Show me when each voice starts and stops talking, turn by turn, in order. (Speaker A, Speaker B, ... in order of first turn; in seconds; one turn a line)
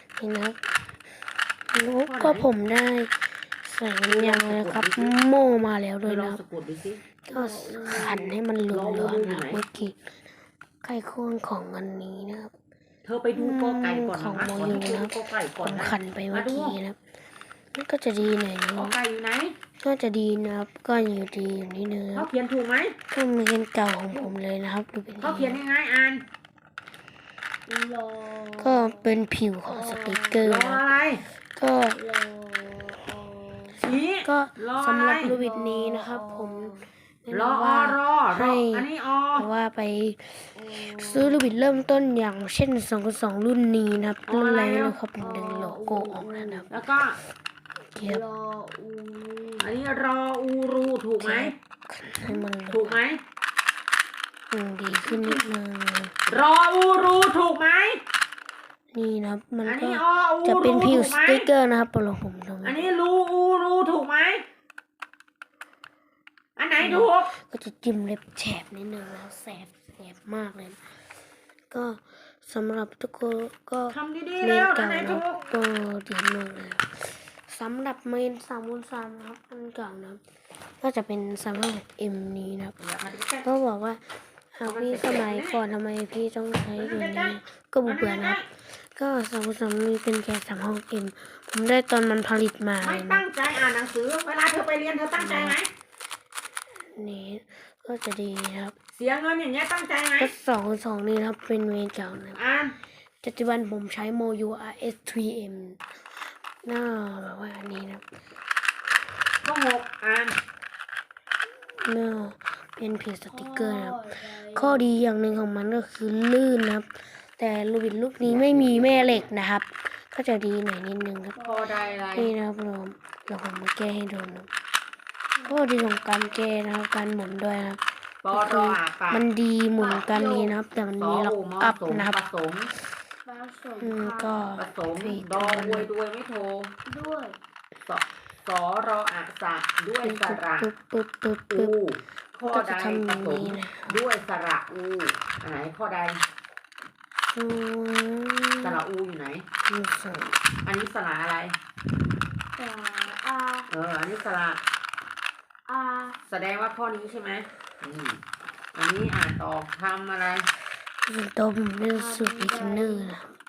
Speaker A: 0.2-0.7
Speaker A: 1.7-6.4
Speaker B: 2.0-2.5
Speaker B: 4.0-5.2
Speaker B: 6.0-7.0
Speaker A: 7.2-10.1
Speaker C: 7.3-8.3
Speaker B: 8.7-9.7
Speaker A: 10.8-12.5
Speaker B: 13.0-16.8
Speaker A: 13.3-17.0
Speaker A: 17.7-19.0
Speaker B: 18.7-19.5
Speaker A: 19.8-22.3
Speaker B: 22.1-22.9
Speaker A: 23.1-25.6
Speaker B: 25.2-26.2
Speaker C: 27.7-30.5
Speaker A: 28.6-30.9
Speaker B: 30.4-31.2
Speaker A: 31.5-32.0
Speaker C: 31.9-33.8
Speaker B: 33.8-35.4
Speaker A: 34.2-46.8
Speaker C: 35.2-36.9
Speaker B: 37.3-39.5
Speaker C: 40.5-41.5
Speaker B: 44.3-45.0
Speaker C: 45.2-46.7
Speaker B: 46.7-47.2
Speaker A: 47.9-48.2
Speaker C: 48.0-49.7
Speaker B: 49.6-51.5
Speaker A: 51.2-53.0
Speaker B: 52.2-53.2
Speaker A: 54.5-56.1
Speaker B: 55.0-55.4
Speaker B: 56.3-58.0
Speaker A: 58.9-62.9
Speaker B: 59.6-61.5
Speaker B: 62.6-64.4
Speaker B: 66.6-67.3
Speaker A: 66.8-70.9
Speaker A: 71.7-80.2
Speaker B: 73.9-75.4
Speaker A: 80.8-82.8
Speaker B: 82.8-83.5
Speaker A: 83.4-93.2
Speaker B: 84.7-85.6
Speaker B: 86.8-88.5
Speaker B: 92.8-95.7
Speaker A: 95.2-95.6
Speaker A: 96.9-98.7
Speaker B: 98.9-100.3
Speaker A: 100.2-102.4
Speaker B: 102.3-102.7
Speaker A: 103.2-105.8
Speaker A: 106.6-108.0
Speaker B: 109.4-110.4
Speaker A: 111.8-121.4
Speaker C: 113.3-114.9
Speaker B: 118.2-119.3
Speaker C: 121.3-122.1
Speaker B: 121.4-122.3
Speaker A: 122.1-124.5
Speaker C: 125.3-126.1
Speaker A: 125.5-132.2
Speaker B: 128.2-129.3
Speaker C: 129.8-130.6
Speaker B: 131.0-132.7
Speaker C: 133.2-134.6
Speaker A: 133.8-135.9
Speaker B: 134.6-136.7
Speaker C: 136.8-137.4
Speaker B: 137.9-140.7
Speaker A: 140.0-141.7
Speaker B: 141.5-146.2
Speaker A: 142.5-144.0
Speaker A: 147.3-148.8
Speaker B: 148.6-149.4
Speaker A: 149.7-150.3
Speaker B: 150.6-151.6
Speaker C: 152.6-153.7
Speaker B: 153.7-154.6
Speaker C: 155.7-156.2
Speaker B: 156.2-158.2
Speaker B: 158.7-160.5
Speaker A: 161.1-163.3
Speaker C: 161.9-163.2